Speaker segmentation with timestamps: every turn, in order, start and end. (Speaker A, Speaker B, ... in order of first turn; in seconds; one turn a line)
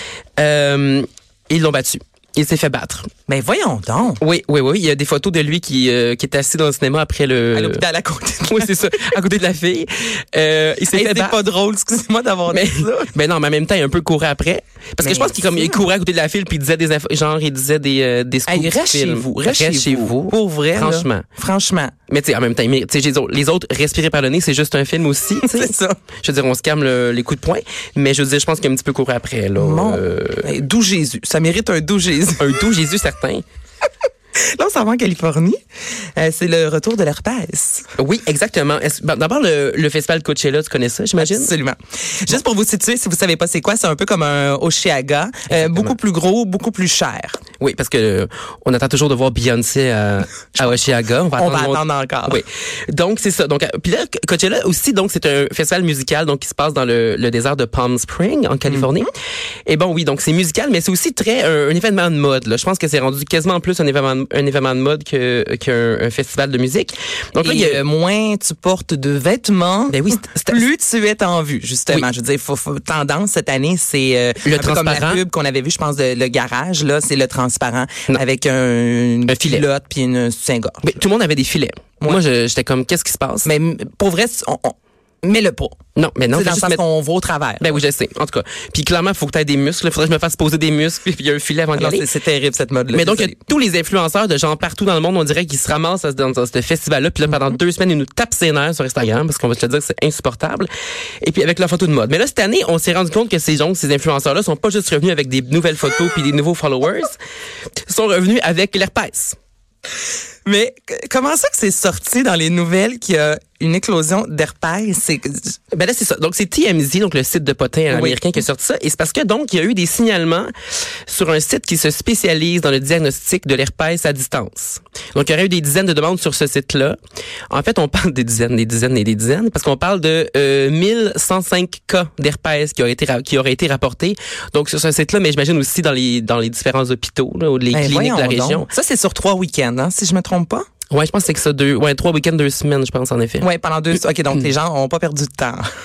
Speaker A: 0.4-3.1
Speaker B: 3.3-4.2
Speaker A: 4.2-7.8
Speaker B: 7.5-8.9
Speaker A: 8.5-11.4
Speaker B: 10.9-13.1
Speaker A: 12.5-21.2
Speaker B: 15.0-15.8
Speaker B: 18.5-21.9
Speaker A: 22.1-30.5
Speaker B: 25.4-25.9
Speaker B: 29.6-32.6
Speaker A: 32.4-33.4
Speaker B: 34.5-35.6
Speaker B: 36.1-37.9
Speaker A: 38.0-41.5
Speaker B: 41.2-47.4
Speaker A: 45.5-46.0
Speaker A: 47.6-59.1
Speaker B: 51.3-52.4
Speaker A: 59.6-67.8
Speaker B: 67.4-80.9
Speaker A: 69.9-70.6
Speaker A: 74.4-75.2
Speaker A: 79.3-79.6
Speaker A: 80.8-83.5
Speaker B: 83.4-85.8
Speaker A: 86.0-86.8
Speaker B: 86.3-87.7
Speaker A: 87.6-92.1
Speaker B: 91.7-93.3
Speaker A: 92.9-100.7
Speaker A: 101.2-107.2
Speaker A: 107.9-109.3
Speaker B: 110.4-115.5
Speaker A: 115.7-120.5
Speaker B: 117.9-118.2
Speaker A: 121.1-127.0
Speaker A: 127.5-138.7
Speaker B: 137.7-140.7
Speaker A: 140.9-143.5
Speaker B: 143.4-145.6